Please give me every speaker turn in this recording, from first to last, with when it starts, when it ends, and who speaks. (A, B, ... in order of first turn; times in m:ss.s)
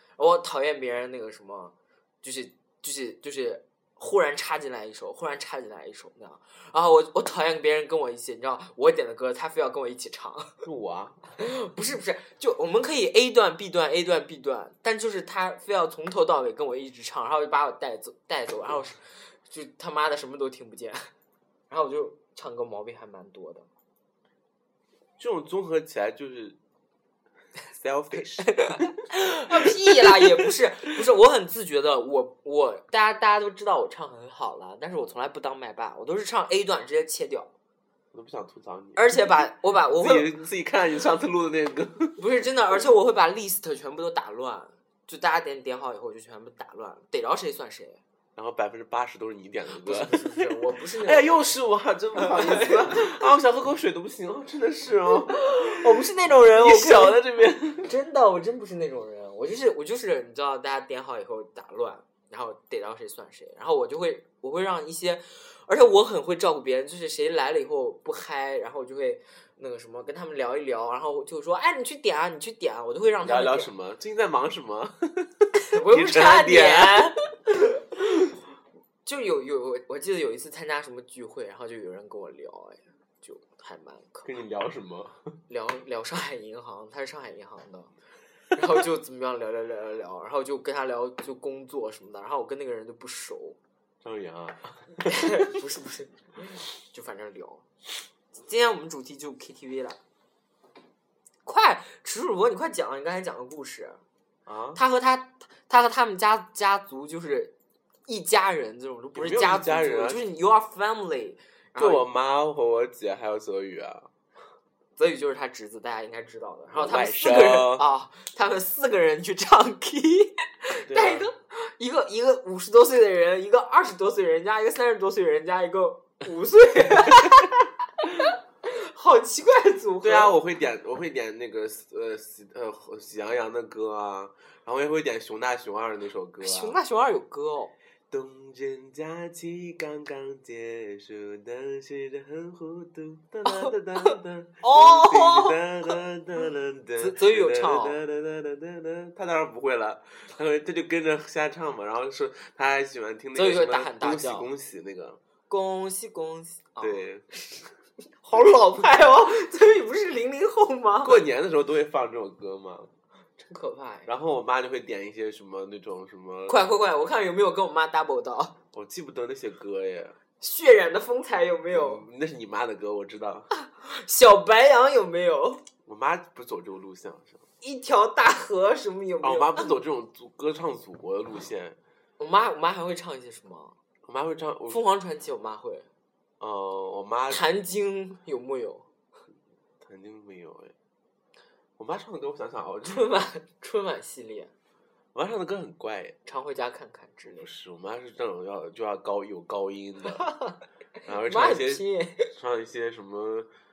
0:00.2-0:10.6 A
0:10.6-0:11.3 B
0:11.4-0:21.1 A
0:21.7-0:23.7 A
0:25.2-0:26.6 B
0:27.7-0:28.9 B
0:28.4-0:37.5 A
0:29.5-0:30.4 B
0:38.1-0:42.2 B
0:39.0-0:40.3 A
0:42.2-0:48.0 A
0:48.4-0:57.9 B
0:49.8-0:51.4 A
0:52.2-0:53.2 A
0:55.3-0:57.2 A
0:57.8-1:13.7 A
1:13.2-1:17.1 B
1:15.7-1:17.8 A
1:19.0-1:24.3 A
1:24.2-1:25.2 B
1:25.5-1:27.9 A
1:28.5-1:33.6 A
1:34.0-1:35.5 B
1:35.0-1:37.6 A
1:38.3-1:40.0 A
1:41.4-1:44.0 A
1:44.5-1:44.8 B
1:44.8-1:47.5 A
1:48.1-1:52.0 A
1:49.2-1:50.2 B
1:51.8-1:54.1 B
1:55.0-2:10.4 A
1:56.7-1:57.8 B
2:00.8-2:01.3 B
2:07.0-2:07.3 B
2:10.0-2:16.8 B
2:16.4-2:17.7 A
2:18.1-2:35.2 B
2:24.6-2:25.6 A
2:27.0-2:28.0 A
2:33.3-2:34.5 A
2:35.5-2:37.1 A
2:36.8-2:37.3 B
2:38.2-2:41.2 A
2:38.3-2:38.6 B
2:41.0-2:42.9 B
2:43.4-2:44.1 A
2:44.1-2:46.6 B
2:46.5-2:48.6 A
2:48.7-2:50.2 B
2:50.4-2:52.0 A
2:51.7-2:53.5 B
2:53.5-2:55.6 A
2:55.8-2:57.4 B
2:57.6-2:59.7 A
2:59.2-3:01.8 B
3:02.2-3:03.8 A
3:04.0-3:04.8 B
3:04.7-3:05.9 A
3:06.4-3:07.4 B
3:07.3-3:08.9 A
3:09.8-3:10.7 B
3:11.8-3:13.1 B
3:12.8-3:14.5 A
3:15.1-3:16.2 B
3:16.3-3:17.5 A
3:17.4-3:20.2 B
3:20.2-3:20.6 A
3:21.0-3:23.5 B
3:21.2-3:22.3 A